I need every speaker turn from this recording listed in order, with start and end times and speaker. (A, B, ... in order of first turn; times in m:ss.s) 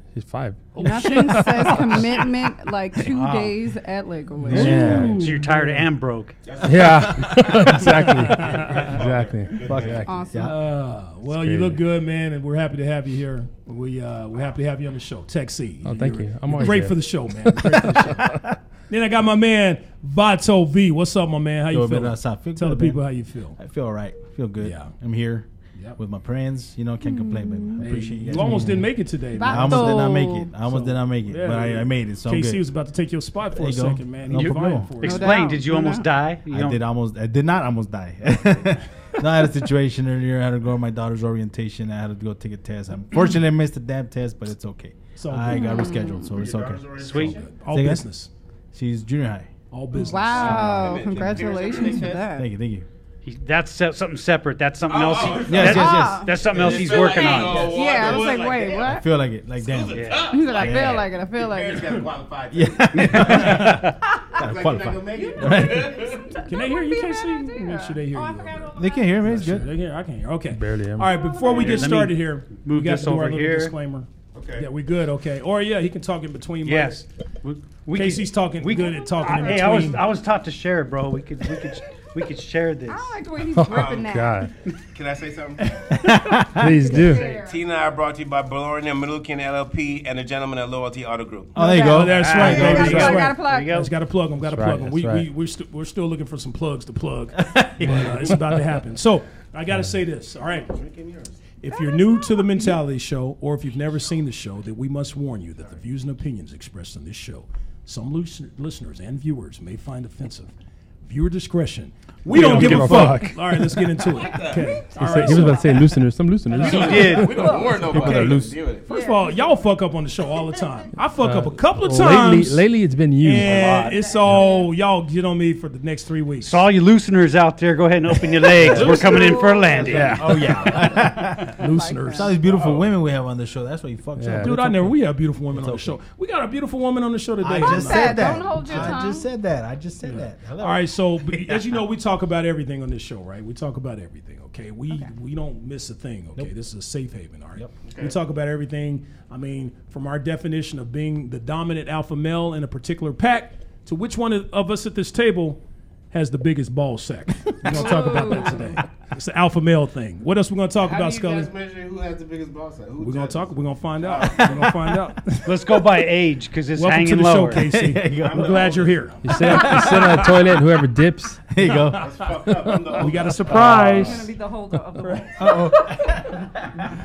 0:00.1-0:01.9 A
0:00.8-0:02.0 B
0:00.8-0:04.8 C
0:03.0-0:03.6 D
0:04.4-0:05.8 B
0:04.5-0:05.2 D
0:04.5-0:05.2 A
0:05.0-0:06.4 E
0:06.4-0:10.0 F
0:06.6-0:10.5 A
0:08.3-0:08.8 B
0:09.6-0:10.5 D
0:10.1-0:10.4 C
0:10.4-0:23.6 B
0:11.2-0:11.8 A
0:15.8-0:18.3 A
0:21.7-0:23.0 D
0:23.6-0:28.8 D
0:24.6-0:24.9 B
0:27.0-0:27.9 C
0:27.8-0:30.1 B
0:28.4-0:28.8 A
0:29.3-0:30.5 C
0:29.4-0:32.7 D
0:30.6-0:35.6 B
0:33.5-0:34.9 D
0:34.3-0:36.8 E
0:35.0-0:36.1 C
0:36.4-0:48.0 D
0:45.2-0:45.7 B
0:45.5-0:46.3 C
0:46.2-0:47.5 F
0:46.9-0:47.4 E
0:47.3-0:48.3 B
0:48.7-0:49.5 D
0:49.7-0:50.6 B
0:50.0-0:52.5 C
0:50.0-0:51.8 D
0:50.2-0:52.2 F
0:52.3-0:52.9 D
0:53.2-0:57.8 E
0:54.8-0:55.8 F
0:55.3-0:56.3 C
0:55.5-0:56.9 D
0:56.4-0:59.0 F
0:57.0-0:59.0 C
0:58.7-1:01.1 D
0:59.6-1:03.8 F
0:59.9-1:00.3 E
1:00.3-1:01.9 C
1:02.5-1:06.1 D
1:03.0-1:03.6 E
1:04.4-1:06.4 F
1:05.2-1:09.3 C
1:06.4-1:17.1 B
1:08.8-1:09.7 D
1:10.5-1:11.1 A
1:11.1-1:11.8 C
1:11.5-1:13.7 E
1:11.5-1:11.8 F
1:14.3-1:14.7 F
1:16.6-1:23.2 E
1:17.9-1:20.0 B
1:18.7-1:20.1 C
1:22.9-1:24.5 C
1:23.6-1:24.5 A
1:23.6-1:25.8 F
1:25.9-1:26.8 D
1:26.4-1:27.2 A
1:26.8-1:27.6 C
1:27.2-1:31.5 F
1:31.5-1:33.8 C
1:31.6-1:33.2 D
1:31.7-1:40.7 B
1:32.2-1:33.9 E
1:34.4-1:35.3 A
1:37.4-1:38.4 D
1:40.5-1:41.4 F
1:41.6-1:50.5 B
1:41.7-1:42.8 C
1:51.0-1:55.6 B
1:52.3-1:53.2 D
1:52.3-1:53.4 A
1:52.5-1:52.8 E
1:54.0-1:55.6 F
1:55.0-1:58.6 A
1:56.5-1:58.9 F
1:56.6-1:57.5 E
1:57.2-1:57.8 C
1:58.8-2:02.6 B
1:58.9-1:59.5 C
2:01.2-2:03.8 A
2:03.2-2:06.7 B
2:03.4-2:04.0 E
2:03.9-2:04.7 C
2:06.4-2:10.3 E
2:08.6-2:15.0 D
2:08.7-2:09.5 F
2:09.1-2:09.8 C
2:09.8-2:10.4 A
2:10.8-2:12.3 B
2:11.5-2:12.3 C
2:12.4-2:12.9 F
2:14.2-2:14.8 A
2:14.4-2:19.0 B
2:15.5-2:16.0 D
2:17.4-2:21.8 D
2:17.6-2:19.2 C
2:20.0-2:41.5 B
2:27.8-2:28.2 F
2:37.7-2:38.8 C
2:40.8-2:44.7 F
2:43.0-2:45.7 B
2:45.4-2:47.6 E
2:46.8-2:50.3 B
2:47.5-2:48.8 D
2:48.2-2:50.2 F
2:49.2-2:51.5 A
2:49.4-2:50.1 D
2:51.5-2:52.0 D
2:51.7-2:53.9 F
2:52.5-2:54.3 A
2:53.0-2:54.2 B
2:53.9-2:56.2 C
2:55.0-2:55.3 B
2:55.4-2:56.8 D